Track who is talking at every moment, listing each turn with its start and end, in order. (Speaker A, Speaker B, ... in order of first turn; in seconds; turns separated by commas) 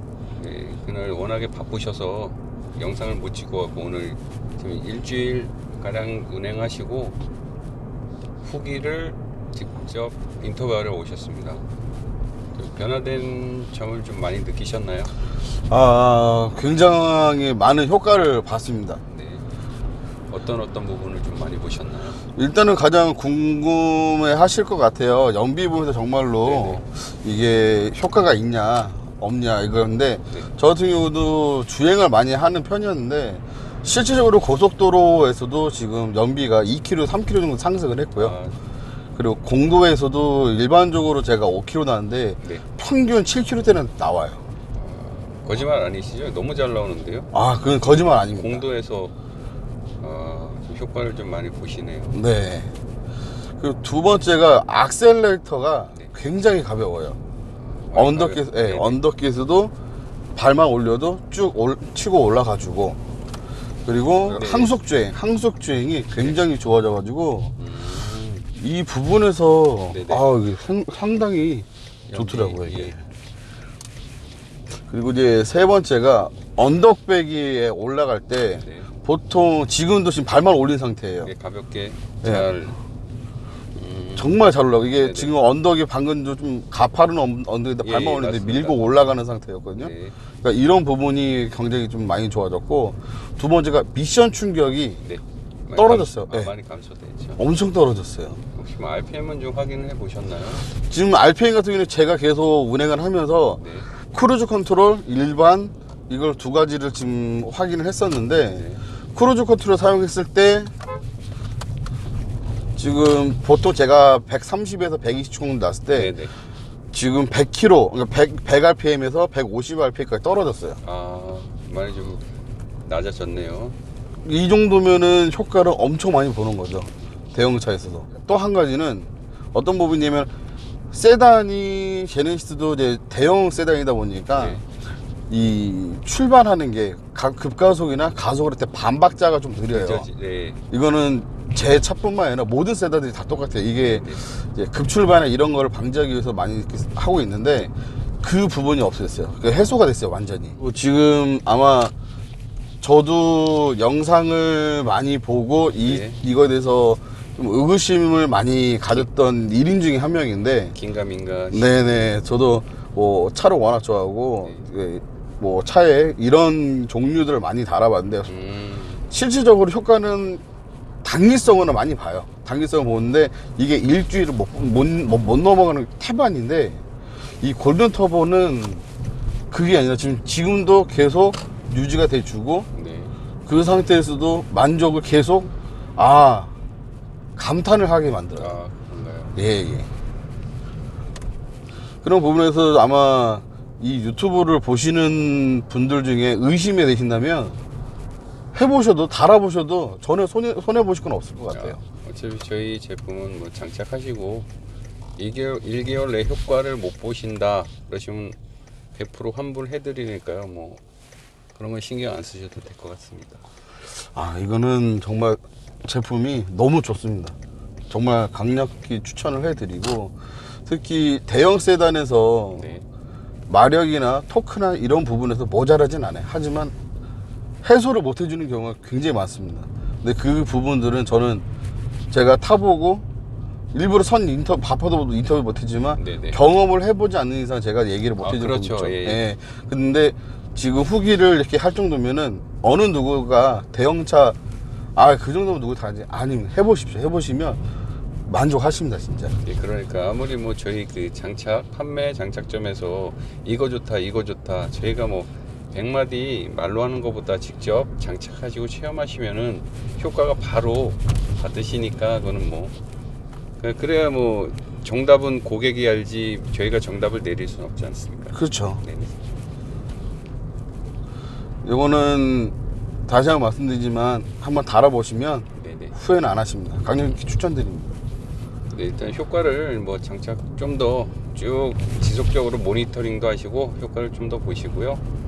Speaker A: 0.4-7.2, Speaker A: 8.4-11.7, Speaker A: 12.6-15.1, Speaker B: 15.7-19.0, Speaker A: 19.1-19.4, Speaker A: 20.3-22.2, Speaker B: 22.4-38.4, Speaker A: 26.4-26.8, Speaker A: 38.2-38.5, Speaker B: 39.2-44.4, Speaker A: 44.8-47.3, Speaker B: 47.3-48.6, Speaker A: 48.2-49.1, Speaker A: 50.0-52.2, Speaker B: 52.1-52.7, Speaker B: 53.6-57.2, Speaker A: 57.7-59.0, Speaker B: 57.9-59.7, Speaker B: 60.4-63.0, Speaker B: 63.9-67.5, Speaker A: 64.2-64.8, Speaker A: 67.6-68.5, Speaker B: 68.5-73.0, Speaker A: 69.9-70.2, Speaker A: 72.1-73.0, Speaker B: 74.9-81.3, Speaker A: 78.6-78.9, Speaker A: 81.2-82.8, Speaker B: 82.2-82.5, Speaker A: 83.8-85.3, Speaker B: 84.2-95.0, Speaker A: 87.8-89.0, Speaker A: 89.8-90.2, Speaker A: 95.0-97.4, Speaker B: 95.8-96.5, Speaker B: 97.4-98.4, Speaker A: 98.5-100.7, Speaker B: 100.7-110.7, Speaker A: 103.6-103.9, Speaker A: 108.4-108.8, Speaker B: 112.8-116.1, Speaker A: 115.9-116.3, Speaker B: 116.9-120.8, Speaker A: 120.8-122.2, Speaker A: 122.8-123.8, Speaker B: 124.2-130.3, Speaker B: 130.9-134.6, Speaker A: 134.3-134.6, Speaker B: 135.3-140.1, Speaker A: 139.7-140.6, Speaker B: 140.7-151.9, Speaker A: 143.8-144.3, Speaker B: 152.8-160.8, Speaker A: 155.8-156.2, Speaker A: 160.7-162.1, Speaker B: 161.5-168.3, Speaker A: 168.3-169.1, Speaker B: 169.1-170.4, Speaker B: 171.0-176.8, Speaker B: 177.4-178.8, Speaker B: 179.5-182.7, Speaker A: 182.7-183.1, Speaker B: 183.5-186.5, Speaker B: 187.4-188.5, Speaker A: 188.4-189.4, Speaker B: 189.4-189.9, Speaker B: 192.0-197.6, Speaker B: 198.5-201.8, Speaker A: 201.5-204.5, Speaker A: 205.2-208.4, Speaker A: 208.9-210.8, Speaker A: 211.6-213.4, Speaker B: 214.0-217.3, Speaker B: 217.9-220.1, Speaker B: 220.7-222.7, Speaker A: 222.6-222.8, Speaker B: 223.5-226.7, Speaker B: 227.6-231.4, Speaker B: 232.1-233.1, Speaker B: 233.7-244.4, Speaker A: 236.0-236.4, Speaker A: 238.2-239.2, Speaker B: 245.0-247.6, Speaker B: 248.3-249.4, Speaker A: 249.4-262.7, Speaker A: 263.6-269.1, Speaker B: 268.3-268.8, Speaker B: 271.6-272.6, Speaker B: 273.1-277.9, Speaker A: 275.6-275.9, Speaker A: 278.7-285.0